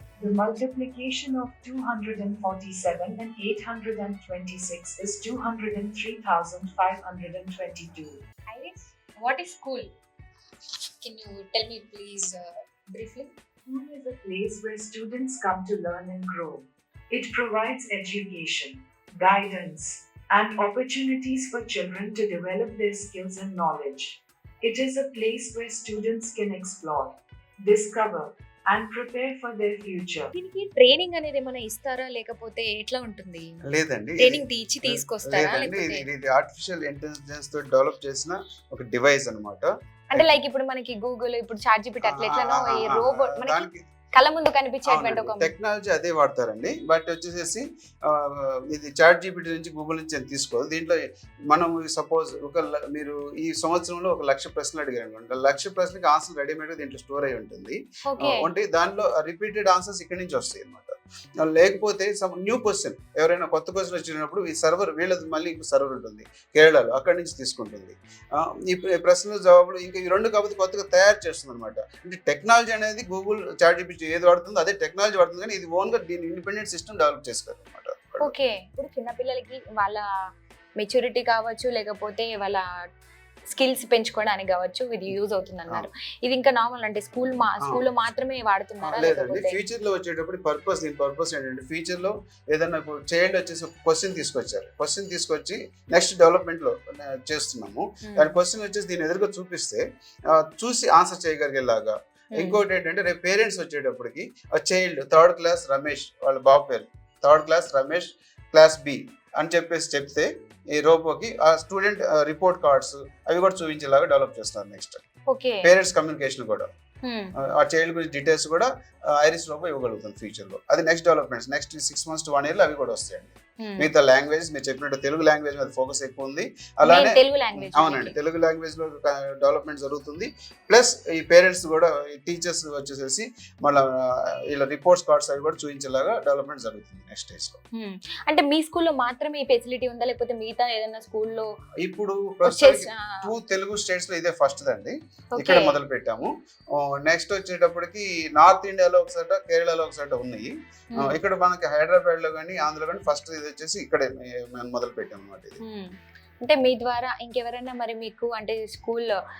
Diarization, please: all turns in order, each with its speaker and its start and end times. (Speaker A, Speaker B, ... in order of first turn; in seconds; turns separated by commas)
Speaker A: 0.2-8.2, Speaker B: 8.5-9.9, Speaker B: 11.0-13.3, Speaker A: 13.7-30.3, Speaker B: 30.3-33.6, Speaker C: 33.6-40.4, Speaker B: 34.2-36.0, Speaker B: 40.1-43.6, Speaker C: 42.0-43.8, Speaker B: 44.1-45.5, Speaker C: 44.9-51.0, Speaker C: 51.5-78.3, Speaker B: 58.1-58.5, Speaker B: 78.2-80.0, Speaker B: 80.8-82.6, Speaker B: 83.5-89.6, Speaker C: 88.8-115.0, Speaker B: 98.0-98.3, Speaker B: 115.3-115.7, Speaker C: 115.6-116.7, Speaker B: 117.0-117.3, Speaker C: 117.4-137.6, Speaker B: 123.6-123.9, Speaker B: 126.8-128.1, Speaker B: 137.8-141.5, Speaker C: 141.8-155.6, Speaker B: 142.4-143.3, Speaker B: 145.3-145.8, Speaker B: 155.6-155.9, Speaker B: 156.4-159.2